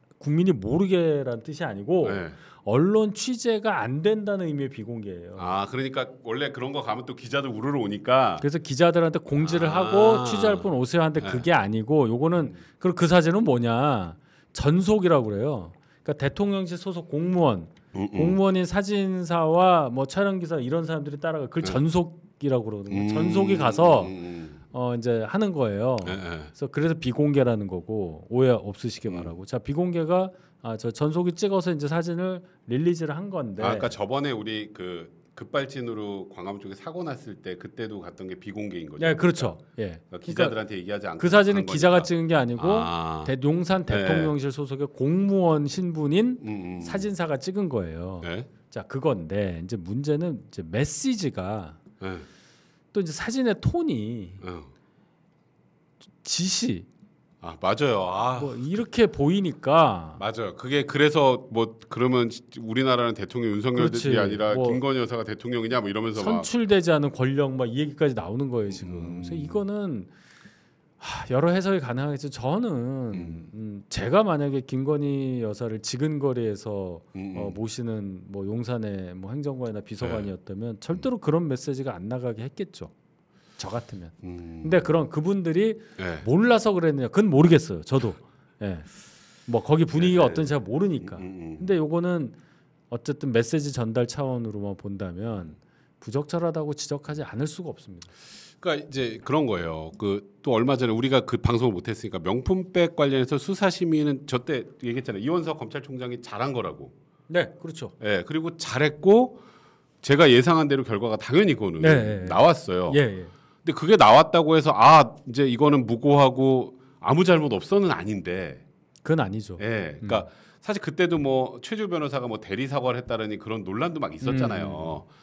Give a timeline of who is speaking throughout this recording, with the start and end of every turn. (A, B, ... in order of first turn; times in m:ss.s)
0:00.2-0:05.5 A
0:02.0-0:02.4 B
0:05.4-0:08.4 B
0:08.4-0:24.1 A
0:09.4-0:11.4 B
0:17.9-0:18.4 B
0:22.9-0:24.6 B
0:24.7-0:33.9 A
0:26.0-0:26.5 B
0:29.0-0:29.3 B
0:33.6-0:39.6 B
0:39.0-0:40.6 A
0:40.1-0:43.3 B
0:41.2-0:51.8 A
0:43.9-0:44.3 B
0:46.4-0:47.1 B
0:48.2-0:48.5 B
0:52.0-0:52.3 B
0:52.9-0:54.4 A
0:54.4-0:54.7 B
0:56.2-0:56.9 A
0:57.4-0:58.6 B
0:58.4-1:00.2 A
1:00.2-1:06.5 B
1:03.7-1:04.8 A
1:06.2-1:10.1 A
1:08.7-1:09.6 B
1:11.0-1:22.9 A
1:13.1-1:13.5 B
1:17.1-1:17.6 B
1:20.0-1:20.3 B
1:23.6-1:28.9 A
1:24.2-1:24.9 B
1:26.0-1:26.2 B
1:29.5-1:32.4 A
1:29.9-1:31.7 B
1:32.9-1:38.1 A
1:38.6-1:46.9 B
1:47.3-1:47.9 A
1:48.0-1:49.4 B
1:50.0-1:53.0 B
1:51.8-1:53.3 A
1:53.6-1:58.6 B
1:59.0-2:00.2 A
1:59.6-2:05.1 B
2:04.2-2:05.0 A